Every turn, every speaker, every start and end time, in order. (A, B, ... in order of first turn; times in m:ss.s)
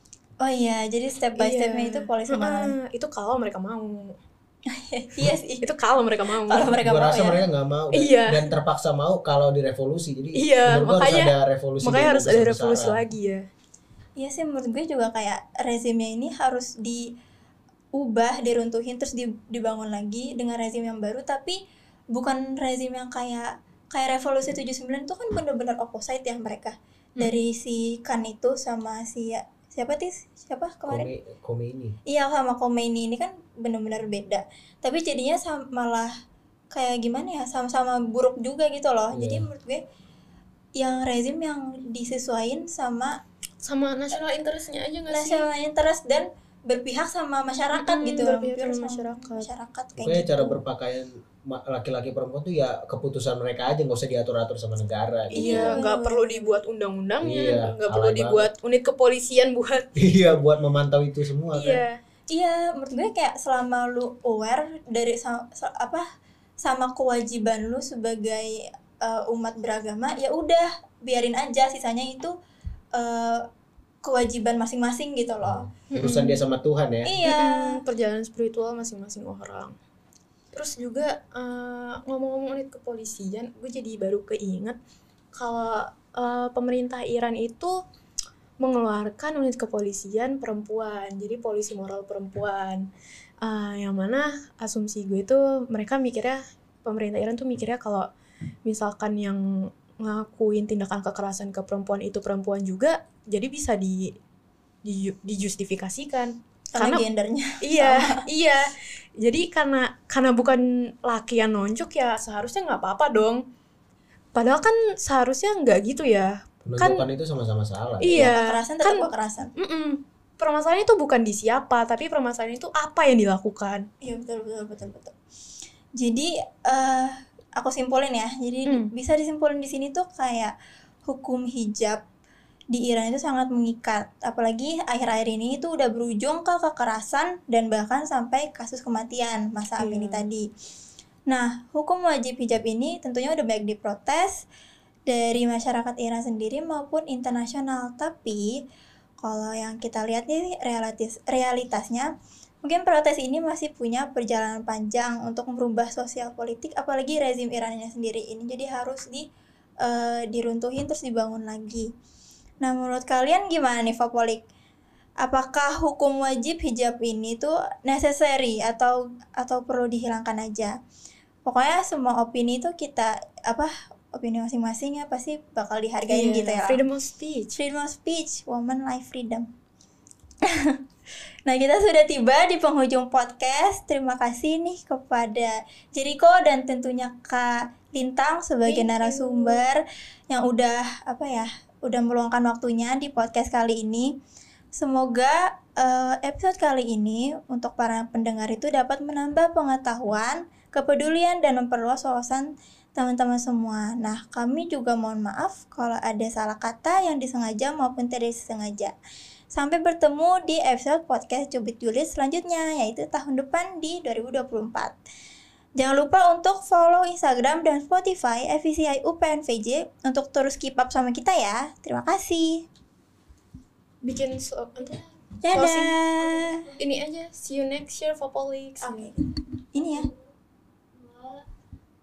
0:00.4-0:02.7 A
0:01.3-0:04.2 B
0:04.7-0:05.7 A
0:05.6-0:06.8 B
0:06.4-0:07.4 A
0:06.8-0:13.0 C
0:07.9-0:08.5 B
0:10.4-0:13.4 B
0:14.2-0:17.1 A
0:17.9-0:21.6 A
0:22.1-0:31.1 A
0:30.9-0:32.0 C
0:32.0-0:36.1 A
0:36.7-0:39.8 A
0:39.1-0:39.5 C
0:40.8-0:43.2 A
0:43.6-0:45.4 B
0:45.1-0:50.6 A
0:47.7-0:49.5 B
0:50.0-0:55.8 C
0:55.3-0:59.9 B
0:55.3-0:56.6 A
0:57.2-0:58.5 C
1:00.0-1:01.8 C
1:01.5-1:02.0 B
1:02.3-1:06.0 A
1:06.6-1:12.3 A
1:12.9-1:13.5 A
1:14.0-1:15.7 A
1:15.4-1:17.1 C
1:15.9-1:16.4 B
1:17.0-1:17.8 A
1:17.2-1:19.7 B
1:20.5-1:24.8 B
1:25.3-1:27.8 B
1:28.6-1:32.9 B
1:33.4-1:38.1 B
1:38.6-1:44.2 B
1:44.8-1:47.0 B
1:46.8-1:48.2 A
1:47.6-1:53.4 B
1:54.3-1:57.0 B
1:56.6-1:58.3 C
1:58.0-2:03.9 B
1:58.1-1:59.5 A
2:04.0-2:05.1 A
2:06.0-2:12.0 A
2:08.6-2:08.9 B
2:12.7-2:20.5 A
2:19.8-2:20.3 B
2:21.3-2:24.4 A
2:25.1-2:28.6 A
2:29.2-2:32.1 A
2:32.6-2:39.2 A
2:39.8-2:41.9 A
2:42.6-2:44.4 A
2:45.2-2:50.7 A
2:51.4-2:56.8 A
2:56.1-2:57.5 B
2:57.5-2:59.5 A
3:00.4-3:00.8 A
3:01.4-3:14.1 A
3:08.6-3:09.6 B
3:14.8-3:28.9 A
3:29.5-3:34.9 A
3:35.8-3:42.6 A
3:44.0-3:49.1 B
3:45.4-3:46.7 A
3:48.8-3:49.2 A
3:49.7-3:50.1 A